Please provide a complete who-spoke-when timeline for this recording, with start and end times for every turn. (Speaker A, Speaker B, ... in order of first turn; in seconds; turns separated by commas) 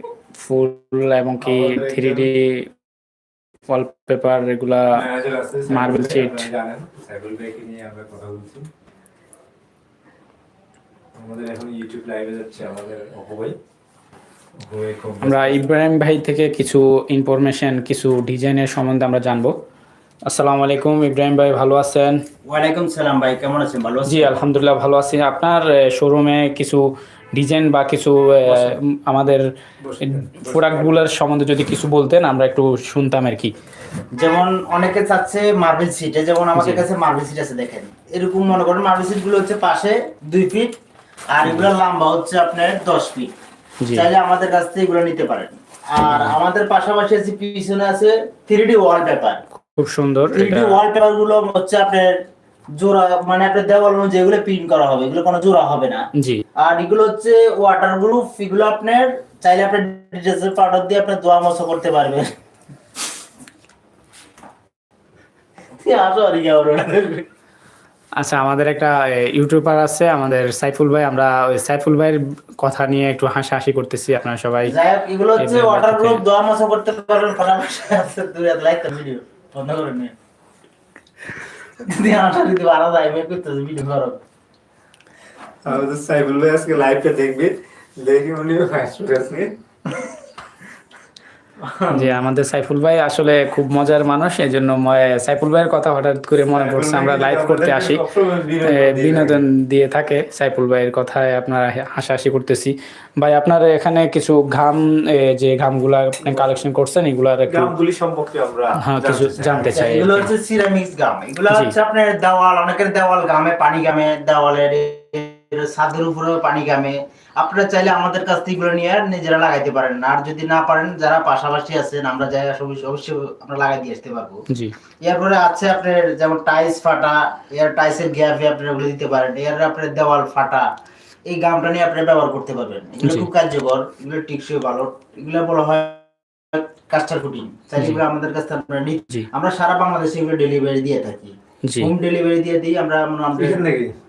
Speaker A: 0.4-2.7, Speaker B: 1.4-2.3, Speaker A: 3.7-5.0, Speaker B: 4.9-8.7, Speaker A: 5.7-6.5, Speaker B: 11.2-13.6, Speaker B: 14.6-15.7, Speaker A: 15.2-19.5, Speaker A: 20.3-22.2, Speaker C: 22.5-24.4, Speaker A: 24.1-29.4, Speaker B: 28.5-28.8, Speaker B: 29.8-31.1, Speaker A: 30.0-33.5, Speaker C: 34.2-40.7, Speaker A: 36.5-36.9, Speaker C: 41.3-43.3, Speaker A: 43.8-44.1, Speaker C: 43.9-49.4, Speaker A: 46.0-46.4, Speaker A: 49.7-50.8, Speaker C: 50.3-52.2, Speaker C: 52.8-56.0, Speaker A: 56.2-56.4, Speaker C: 56.6-62.3, Speaker C: 65.8-67.2, Speaker A: 68.2-74.8, Speaker C: 74.7-80.1, Speaker A: 75.4-76.2, Speaker C: 81.8-84.2, Speaker B: 85.7-89.6, Speaker B: 91.6-92.2, Speaker A: 91.9-98.0, Speaker B: 96.5-99.4, Speaker A: 98.6-107.7, Speaker B: 107.5-109.8, Speaker A: 108.8-110.3, Speaker C: 109.6-124.4, Speaker C: 125.0-130.7, Speaker C: 131.3-143.6, Speaker A: 133.0-133.3, Speaker A: 141.7-141.9, Speaker B: 143.4-143.9